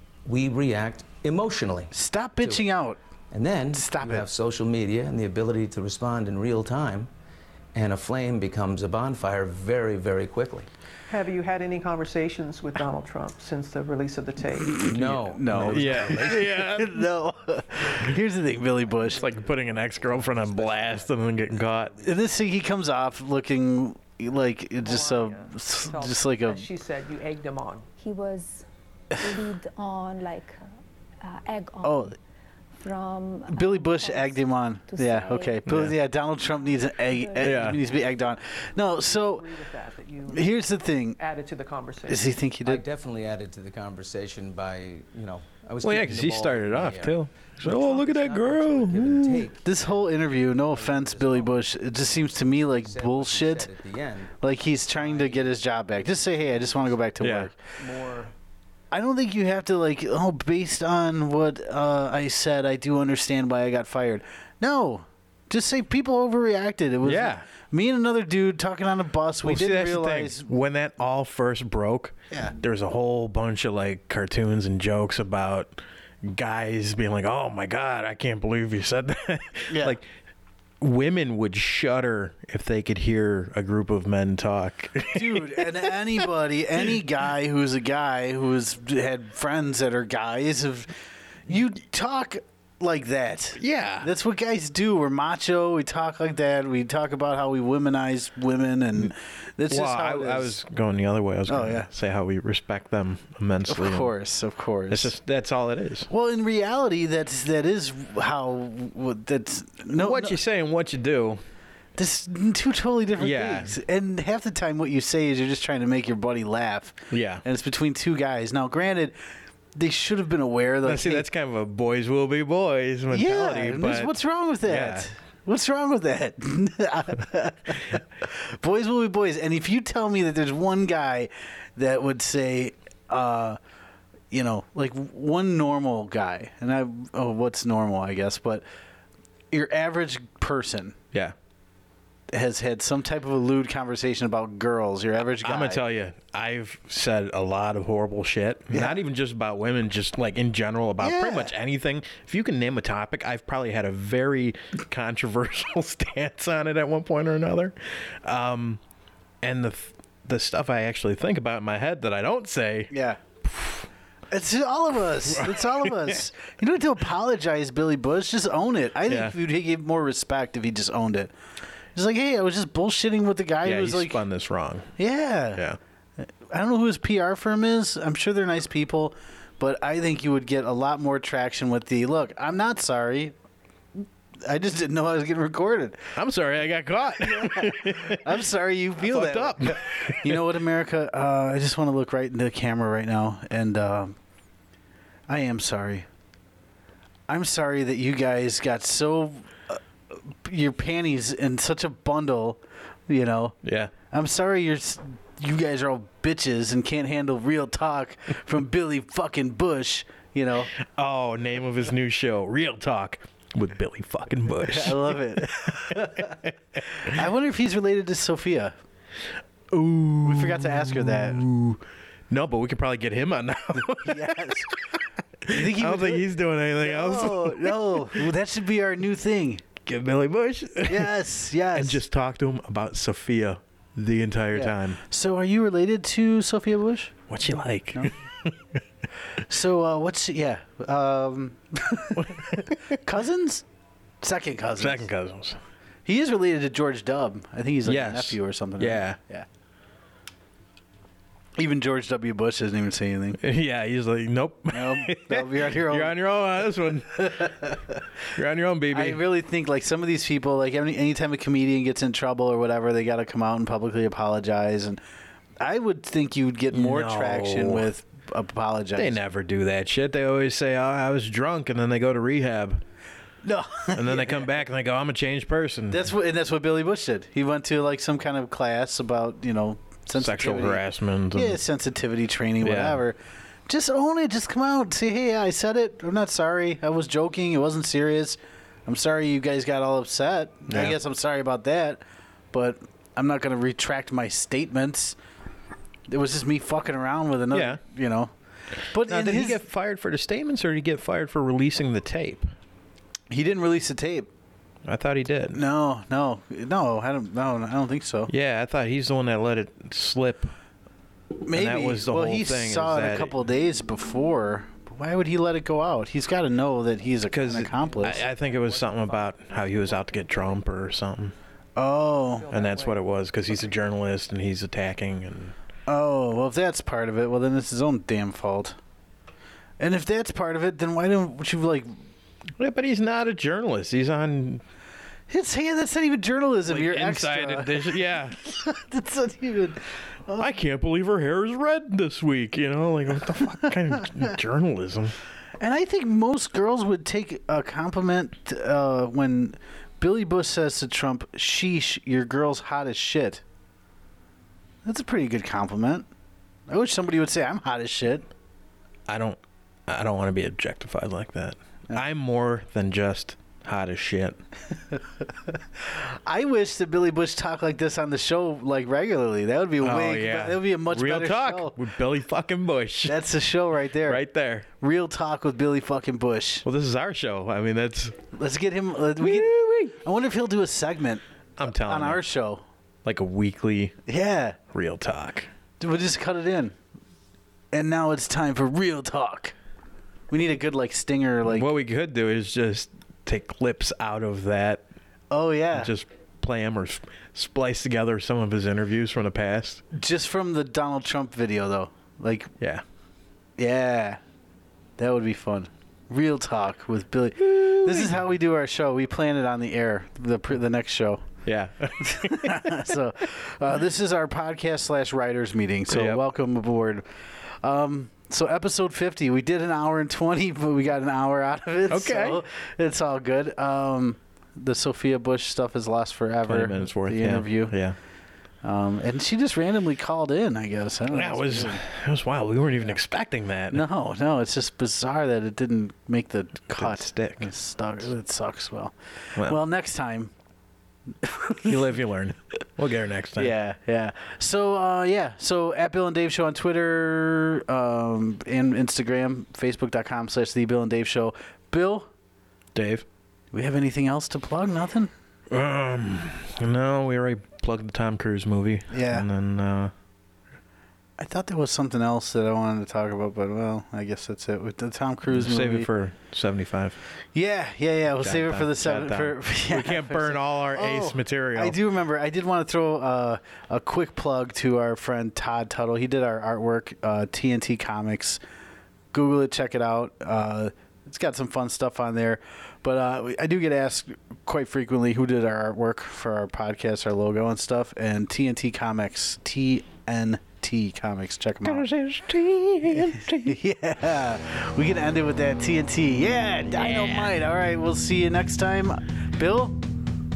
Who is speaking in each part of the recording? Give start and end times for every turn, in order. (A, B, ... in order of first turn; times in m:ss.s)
0:00.2-0:02.7 A
0:01.9-0:03.0 B
0:03.3-0:07.1 A
0:03.7-0:04.3 B
0:07.7-0:10.7 A
0:11.1-0:14.9 C
0:14.8-0:19.3 B
0:14.8-0:16.6 A
0:15.5-0:17.1 D
0:19.1-0:22.0 D
0:19.9-0:21.1 A
0:21.7-0:22.4 A
0:22.0-0:26.6 B
0:24.8-0:27.9 C
0:28.0-0:28.6 E
0:29.2-0:30.6 E
0:31.2-0:32.1 E
0:31.8-0:32.1 B
0:32.8-0:35.8 E
0:33.5-0:39.5 B
0:35.7-0:35.9 D
0:37.0-0:38.2 E
0:37.4-0:37.8 D
0:38.9-0:40.5 C
0:40.3-0:41.2 B
0:41.2-0:42.4 C
0:42.1-0:42.8 B
0:42.6-0:54.3 A
0:45.8-0:49.5 D
0:49.6-0:53.7 B
0:54.4-0:57.6 B
0:54.9-0:57.1 A
0:57.2-0:57.5 D
0:57.8-0:58.3 A
0:58.9-1:10.5 B
1:07.0-1:07.5 D
1:09.4-1:20.0 D
1:19.7-1:20.0 B
1:20.8-1:25.9 D
1:25.1-1:30.9 B
1:31.5-1:40.6 B
1:33.6-1:34.1 D
1:39.7-1:44.1 D
1:41.5-1:41.9 B
1:43.7-1:45.1 B
1:44.9-1:46.1 D
1:46.1-1:50.4 B
1:49.9-1:51.4 D
1:52.0-1:59.2 B
1:53.2-1:53.8 D
1:57.1-1:57.4 D
1:59.7-2:01.2 B
2:00.8-2:05.1 D
2:03.1-2:13.6 B
2:14.3-2:18.6 B
2:19.5-2:21.0 B
2:22.3-2:25.8 B
2:25.4-2:38.8 D
2:31.0-2:31.5 B
2:39.4-2:42.9 D
2:42.9-2:43.2 B
2:43.4-2:43.8 D
2:44.3-2:51.3 B
2:45.3-2:46.2 D
2:49.1-2:49.4 D
2:51.9-2:54.2 B
2:53.6-2:54.9 D
2:55.0-2:55.6 B
2:56.2-3:03.3 B
3:04.4-3:06.1 B
3:06.1-3:08.4 D
3:07.2-3:14.2 B
3:09.0-3:10.4 D
3:15.3-3:16.0 B
3:17.3-3:19.8 B
3:20.3-3:23.5 B
3:23.6-3:23.9 D
3:24.1-3:30.7 B
3:30.7-3:37.1 D
3:34.6-3:38.7 B
3:39.7-3:44.7 D
3:40.2-3:41.4 B
3:44.0-3:44.8 B
3:45.4-3:48.2 D
3:45.5-3:49.6 B
3:49.8-3:51.1 D
3:50.9-3:52.0 B
3:51.7-3:55.0 D
3:54.5-3:57.1 B
3:57.3-3:58.8 D
3:59.4-4:03.6 B
4:02.2-4:02.8 D
4:04.2-4:05.1 B
4:04.8-4:05.6 D
4:06.0-4:09.4 B
4:07.8-4:09.2 D
4:11.6-4:13.4 B
4:13.4-4:17.7 D
4:14.7-4:16.2 B
4:17.1-4:18.0 B
4:18.3-4:19.2 D
4:18.9-4:25.0 B
4:25.6-4:29.2 B
4:26.7-4:27.9 D
4:28.9-4:32.8 D
4:33.4-4:34.5 B
4:33.9-4:36.1 D
4:35.9-4:43.2 B
4:40.1-4:41.6 D
4:42.6-4:43.0 D
4:43.7-4:55.2 B
4:50.7-4:51.0 D
4:56.1-4:58.3 B
4:57.5-4:57.8 D
4:58.9-4:59.6 B
4:58.9-5:02.5 D
5:03.3-5:04.3 B
5:04.8-5:05.6 D
5:05.5-5:08.3 B
5:08.3-5:10.5 D
5:11.4-5:18.2 B
5:11.5-5:13.4 D
5:17.3-5:21.3 D
5:17.8-5:20.6 C
5:21.8-5:22.5 B
5:22.3-5:23.8 C
5:22.5-5:25.5 D
5:25.9-5:28.8 B
5:29.8-5:31.9 B
5:32.6-5:34.6 D
5:35.3-5:40.5 B
5:36.7-5:38.4 D
5:40.4-5:45.1 D
5:45.6-5:53.4 B
5:54.8-5:56.1 B
5:56.7-5:58.3 B
5:59.1-6:04.4 D
6:05.5-6:11.8 B
6:09.8-6:13.2 D
6:13.0-6:14.2 B
6:14.0-6:14.7 D
6:14.8-6:16.6 B
6:16.6-6:18.2 D
6:18.3-6:22.6 B
6:19.2-6:20.0 D
6:21.6-6:22.2 D
6:23.0-6:23.9 D
6:24.0-6:24.6 B
6:24.7-6:25.5 D
6:25.8-6:26.8 B
6:27.7-6:29.5 B
6:30.3-6:31.7 B
6:31.5-6:34.8 D
6:35.3-6:35.9 B
6:35.7-6:39.8 D
6:39.9-6:42.5 B
6:43.6-6:44.2 B
6:45.0-6:51.2 B
6:47.4-6:48.2 D
6:51.4-6:52.9 D
6:52.0-7:07.7 B
6:55.9-6:56.2 D
7:01.9-7:02.4 D
7:06.5-7:08.0 D
7:08.6-7:11.8 B
7:11.1-7:13.8 D
7:13.7-7:20.3 B
7:16.7-7:17.5 D
7:21.2-7:21.7 B
7:21.6-7:23.5 D
7:23.4-7:32.1 B
7:32.7-7:33.0 D
7:33.5-7:35.1 B
7:35.5-7:39.9 D
7:38.9-7:39.3 B
7:41.2-7:45.9 B
7:45.3-7:47.0 D
7:47.3-7:58.4 B
7:48.2-7:51.8 D
7:59.1-8:11.8 B
8:11.6-8:13.6 D
8:12.9-8:19.8 B
8:16.7-8:17.4 D